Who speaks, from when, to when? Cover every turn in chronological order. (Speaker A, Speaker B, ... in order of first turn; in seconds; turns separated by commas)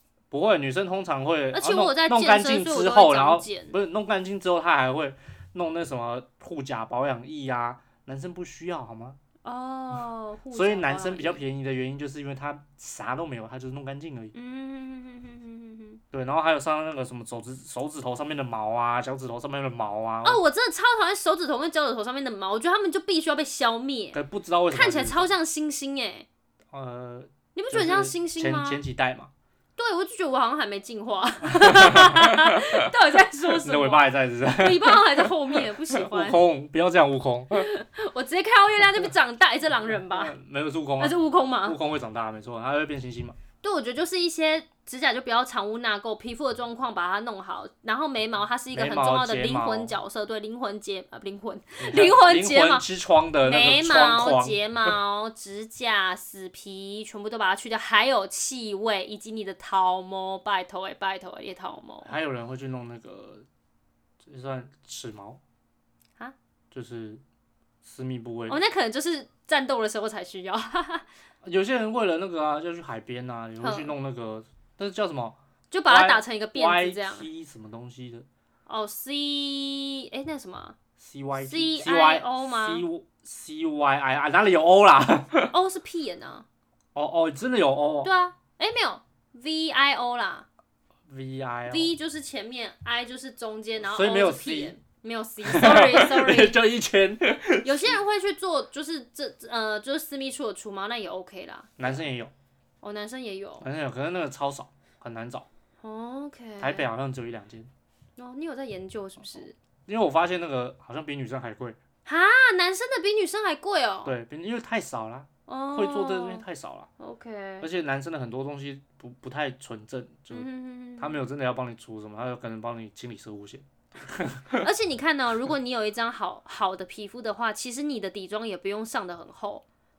Speaker A: 0.3-9.2, Speaker B: 1.5-3.8, Speaker B: 9.4-11.4, Speaker A: 10.5-14.3, Speaker B: 14.3-16.0, Speaker A: 16.1-20.4, Speaker B: 20.2-24.2, Speaker A: 24.1-25.3, Speaker B: 24.7-26.3, Speaker A: 26.7-29.3, Speaker B: 27.6-28.8, Speaker B: 29.8-36.4, Speaker A: 31.5-32.6, Speaker A: 33.6-37.6, Speaker B: 37.5-40.3, Speaker A: 40.1-43.4, Speaker B: 41.0-41.8, Speaker B: 43.6-52.8, Speaker A: 48.7-49.9, Speaker A: 51.8-54.6, Speaker B: 53.4-62.1, Speaker A: 62.0-63.5, Speaker A: 64.2-65.4, Speaker A: 66.7-67.2, Speaker A: 67.8-68.6, Speaker B: 68.5-71.0, Speaker A: 71.4-78.2, Speaker B: 73.6-73.9, Speaker B: 75.7-77.2, Speaker B: 78.7-80.8, Speaker A: 81.0-85.5, Speaker B: 81.3-82.8, Speaker B: 85.5-86.5, Speaker A: 86.9-88.1, Speaker B: 88.0-90.5, Speaker A: 91.1-91.9, Speaker B: 91.7-96.6, Speaker A: 93.8-94.7, Speaker A: 95.4-98.0, Speaker B: 97.6-102.0, Speaker A: 101.8-102.3, Speaker B: 102.8-103.6, Speaker A: 103.6-105.5, Speaker B: 105.8-106.8, Speaker A: 106.6-107.7, Speaker B: 108.2-109.5, Speaker A: 109.9-111.8, Speaker B: 112.0-114.1, Speaker A: 114.0-116.9, Speaker B: 115.5-116.4, Speaker B: 117.0-117.7, Speaker A: 117.6-120.5, Speaker B: 120.3-121.2, Speaker A: 121.0-124.6, Speaker B: 124.6-129.6